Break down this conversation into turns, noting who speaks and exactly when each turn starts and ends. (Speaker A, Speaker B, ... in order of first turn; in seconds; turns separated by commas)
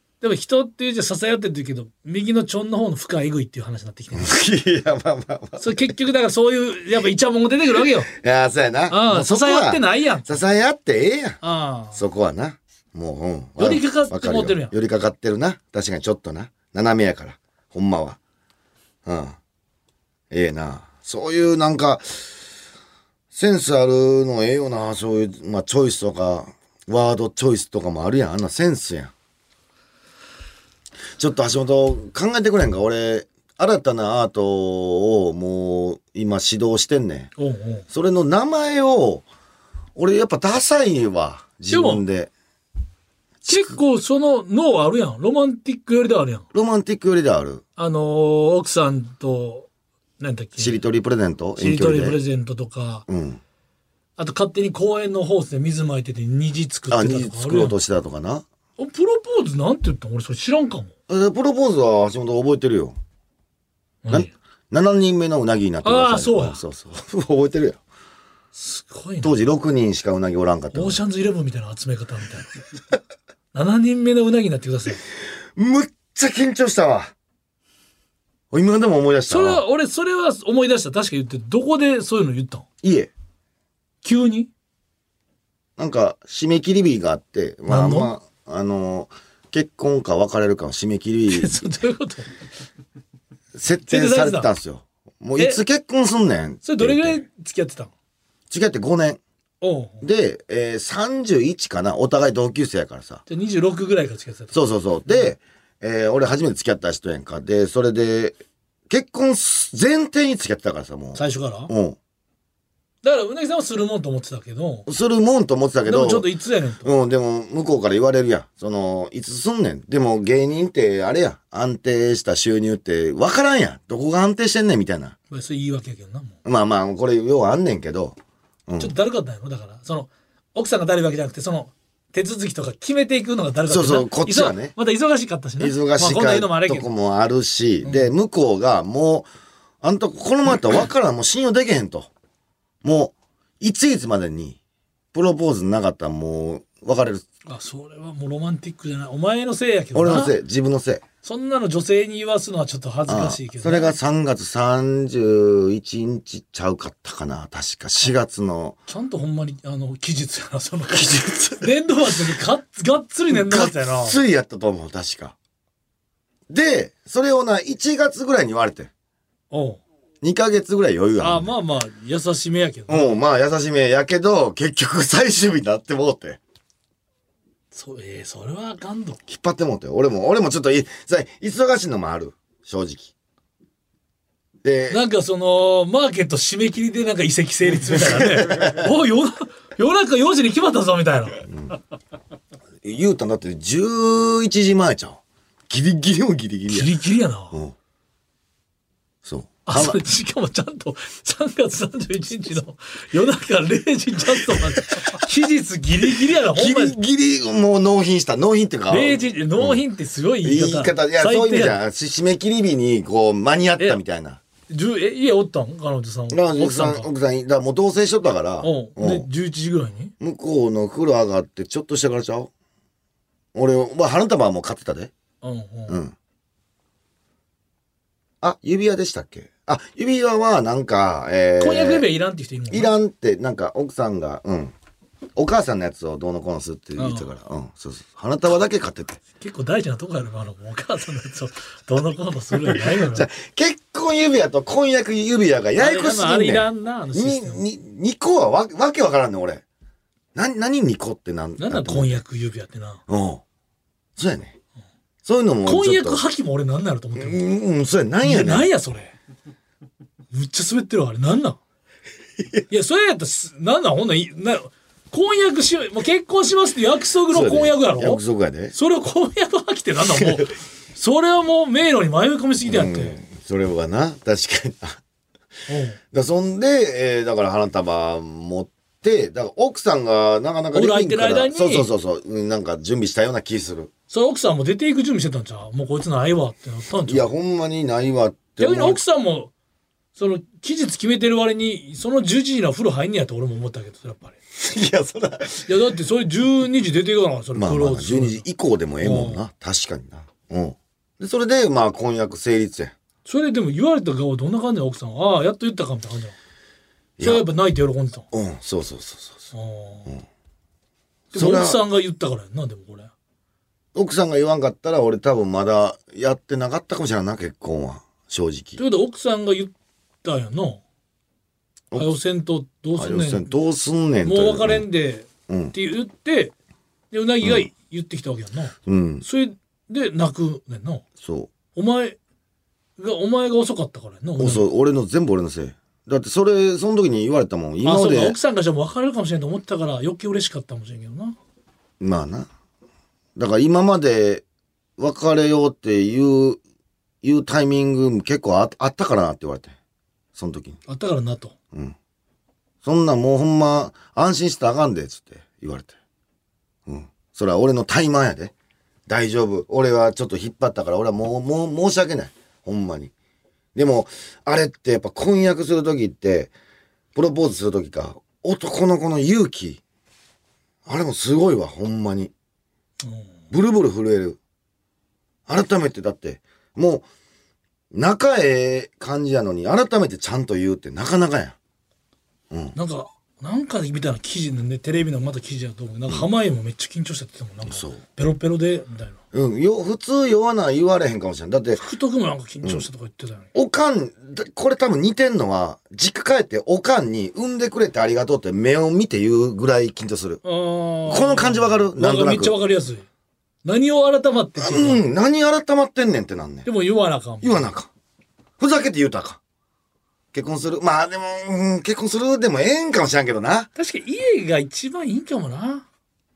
Speaker A: 0.2-4.3, Speaker B: 4.1-5.8, Speaker A: 5.6-8.1, Speaker B: 8.1-11.4, Speaker A: 8.9-10.4, Speaker A: 11.4-12.0, Speaker B: 11.9-18.2, Speaker A: 13.6-14.7, Speaker B: 19.1-19.4, Speaker B: 20.3-22.3, Speaker B: 23.3-29.1, Speaker B: 31.1-37.3, Speaker A: 37.4-37.9, Speaker B: 37.9-39.2, Speaker B: 39.9-42.3, Speaker A: 41.7-42.0, Speaker B: 43.4-43.8, Speaker A: 43.5-46.4, Speaker B: 46.5-47.6, Speaker A: 47.8-49.7, Speaker A: 50.2-50.8, Speaker B: 50.6-52.2, Speaker A: 51.6-53.0, Speaker B: 53.1-53.4, Speaker A: 54.2-57.8, Speaker B: 56.9-58.4, Speaker A: 58.8-60.9, Speaker B: 61.1-63.0, Speaker A: 64.0-64.3, Speaker B: 64.1-67.8, Speaker A: 65.8-66.6, Speaker A: 68.5-69.3, Speaker B: 69.2-71.0, Speaker A: 70.7-72.6, Speaker A: 73.5-75.0, Speaker B: 75.5-77.1, Speaker B: 78.5-79.6, Speaker A: 79.3-82.7, Speaker B: 82.8-83.1, Speaker A: 84.0-84.5, Speaker B: 85.8-91.6, Speaker A: 87.7-88.1, Speaker A: 91.3-92.3, Speaker B: 93.5-97.2, Speaker A: 93.9-94.5, Speaker A: 96.6-97.9, Speaker B: 98.5-99.2, Speaker A: 99.6-100.0, Speaker B: 100.0-103.2, Speaker A: 103.3-105.3, Speaker B: 104.5-112.0, Speaker A: 111.2-111.7, Speaker A: 113.0-114.8, Speaker B: 114.9-116.3, Speaker A: 115.8-116.9, Speaker B: 116.8-125.1, Speaker A: 125.3-126.4, Speaker B: 126.4-128.9, Speaker A: 128.8-136.9, Speaker B: 133.7-134.7, Speaker B: 135.6-139.3, Speaker A: 137.8-138.1, Speaker B: 139.8-142.1, Speaker B: 142.8-144.6, Speaker B: 145.1-147.2, Speaker A: 147.4-150.3, Speaker B: 149.9-151.0, Speaker A: 151.2-153.9, Speaker B: 153.1-158.8, Speaker A: 158.9-164.2, Speaker B: 160.9-161.7, Speaker B: 163.3-165.3, Speaker B: 166.5-168.9, Speaker A: 169.5-169.8, Speaker B: 170.2-171.5, Speaker A: 171.2-173.1, Speaker B: 172.9-176.4, Speaker A: 177.7-179.2, Speaker B: 179.3-183.1, Speaker B: 184.6-185.0, Speaker A: 184.9-191.4, Speaker B: 187.9-188.9, Speaker B: 191.5-191.7, Speaker B: 192.8-196.9, Speaker A: 196.7-197.6, Speaker B: 199.2-200.0, Speaker A: 199.7-206.9, Speaker B: 204.5-205.1, Speaker B: 206.5-209.8, Speaker A: 208.9-211.8, Speaker B: 210.4-214.4, Speaker A: 214.7-217.1, Speaker B: 216.3-219.3, Speaker A: 218.6-220.1, Speaker B: 220.2-222.5, Speaker B: 223.5-225.1, Speaker A: 225.4-226.0, Speaker B: 225.9-226.1, Speaker B: 228.4-232.1, Speaker A: 231.6-232.9, Speaker B: 232.7-234.7, Speaker B: 235.3-239.2, Speaker A: 236.9-237.3, Speaker A: 239.4-243.2, Speaker B: 242.6-249.6, Speaker A: 245.8-247.6, Speaker B: 250.3-252.2, Speaker A: 251.6-253.0, Speaker B: 253.1-253.4, Speaker B: 254.2-254.6, Speaker B: 255.2-256.2, Speaker A: 255.6-257.4, Speaker B: 257.2-258.7, Speaker A: 258.2-259.1, Speaker A: 260.3-261.6, Speaker B: 262.4-262.6, Speaker A: 262.7-268.2, Speaker B: 267.3-268.7, Speaker A: 268.7-273.2, Speaker B: 270.0-270.5, Speaker B: 272.6-275.0, Speaker A: 275.7-276.0, Speaker B: 276.1-283.9, Speaker A: 280.7-281.9, Speaker A: 284.1-287.3, Speaker B: 287.0-289.0, Speaker A: 288.6-289.5, Speaker A: 290.1-294.4, Speaker B: 294.6-295.7, Speaker A: 295.6-298.4, Speaker B: 297.6-302.9, Speaker A: 299.0-299.4, Speaker A: 303.2-306.4, Speaker B: 307.2-307.4, Speaker A: 307.2-308.3, Speaker B: 308.3-309.5, Speaker A: 309.5-310.1, Speaker A: 311.3-313.1, Speaker B: 311.3-311.8, Speaker B: 313.9-318.8, Speaker A: 318.8-319.7, Speaker A: 320.2-320.8, Speaker A: 321.9-323.5, Speaker B: 322.9-324.8, Speaker A: 324.2-326.5, Speaker B: 325.5-325.7, Speaker A: 327.1-331.0, Speaker B: 327.4-327.7, Speaker B: 328.9-329.2, Speaker B: 331.2-331.5, Speaker A: 331.7-332.2, Speaker A: 333.0-334.6, Speaker B: 334.4-338.4, Speaker A: 337.8-341.4, Speaker B: 342.0-342.5, Speaker B: 343.4-344.4, Speaker B: 345.0-346.6, Speaker B: 347.2-349.7, Speaker B: 350.3-350.8, Speaker A: 350.9-351.5, Speaker B: 352.8-355.9, Speaker B: 356.9-358.5, Speaker B: 359.1-363.1, Speaker B: 363.7-366.5, Speaker B: 367.1-369.8, Speaker B: 370.9-372.3, Speaker A: 373.0-373.3, Speaker B: 373.5-374.4, Speaker B: 375.5-377.1, Speaker B: 377.9-381.6, Speaker B: 382.5-382.8, Speaker A: 382.7-389.2, Speaker B: 387.6-388.0, Speaker B: 389.3-391.8, Speaker A: 391.8-393.5, Speaker B: 393.5-400.4, Speaker A: 400.4-403.0, Speaker B: 401.1-402.6, Speaker A: 403.6-405.0, Speaker B: 404.6-406.7, Speaker A: 406.6-407.7, Speaker B: 407.4-407.9, Speaker B: 408.6-409.4, Speaker B: 410.3-413.7, Speaker A: 413.8-415.8